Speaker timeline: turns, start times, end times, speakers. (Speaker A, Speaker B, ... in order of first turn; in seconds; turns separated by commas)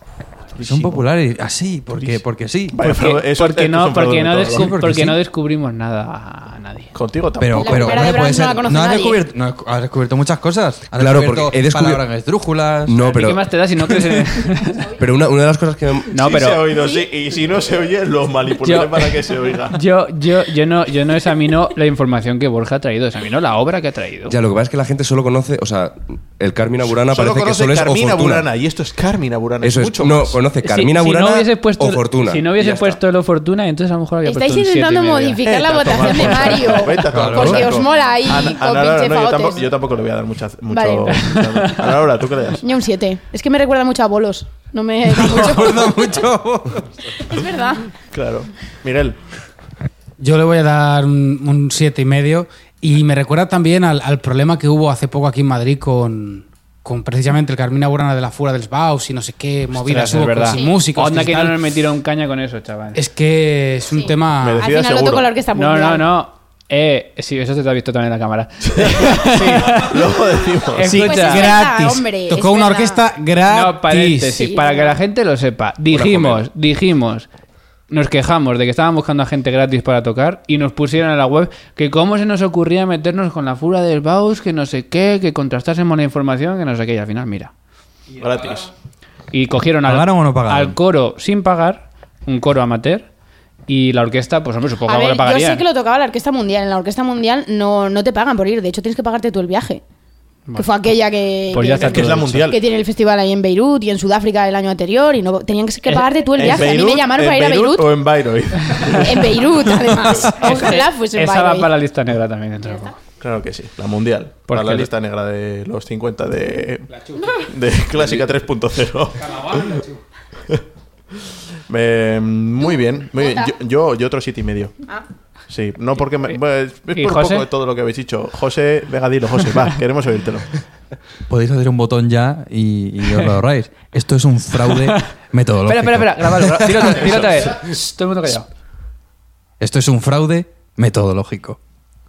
Speaker A: 0.5-1.0, Speaker B: 0.6-2.8, Speaker A: 1.9-4.7, Speaker C: 2.8-6.9, Speaker B: 4.5-5.2, Speaker A: 6.9-8.2, Speaker B: 7.4-13.0, Speaker D: 7.6-9.2, Speaker E: 11.0-12.0, Speaker E: 12.9-13.9, Speaker C: 13.0-14.8, Speaker E: 15.0-16.2, Speaker C: 16.1-16.6, Speaker A: 16.1-19.8, Speaker C: 18.6-19.2, Speaker C: 19.7-24.4, Speaker E: 24.3-28.5, Speaker A: 27.1-30.4, Speaker E: 29.6-33.0, Speaker C: 30.6-35.4, Speaker D: 34.2-39.7, Speaker A: 35.4-42.6, Speaker B: 37.0-37.7, Speaker D: 40.7-41.2, Speaker C: 41.1-41.9, Speaker D: 42.6-46.1, Speaker B: 45.1-46.9, Speaker D: 47.2-47.9, Speaker A: 48.1-49.2, Speaker F: 50.2-61.6, Speaker C: 59.7-63.0, Speaker D: 60.5-60.8, Speaker F: 62.9-64.6, Speaker D: 63.9-66.1, Speaker A: 64.4-65.3, Speaker C: 65.5-70.0, Speaker A: 68.6-71.1, Speaker C: 70.7-71.5, Speaker F: 70.9-74.5, Speaker D: 71.0-73.0, Speaker C: 73.5-77.3, Speaker D: 74.4-75.0, Speaker E: 75.9-76.5, Speaker C: 77.9-87.5, Speaker A: 88.1-88.7, Speaker C: 89.3-93.1, Speaker B: 89.8-90.8, Speaker C: 93.7-95.6, Speaker D: 94.9-99.8, Speaker D: 100.5-107.9, Speaker C: 101.5-102.5, Speaker A: 101.6-102.6, Speaker A: 106.3-109.5, Speaker D: 108.9-111.7, Speaker C: 110.1-113.0, Speaker D: 112.7-112.9, Speaker A: 113.2-119.8, Speaker C: 114.5-114.9, Speaker D: 117.2-117.5, Speaker F: 119.2-120.0, Speaker A: 121.3-124.8, Speaker D: 123.1-123.5, Speaker A: 125.5-130.5, Speaker C: 127.0-127.5, Speaker B: 131.3-137.0, Speaker C: 135.7-138.5, Speaker A: 136.8-137.5, Speaker B: 139.6-141.6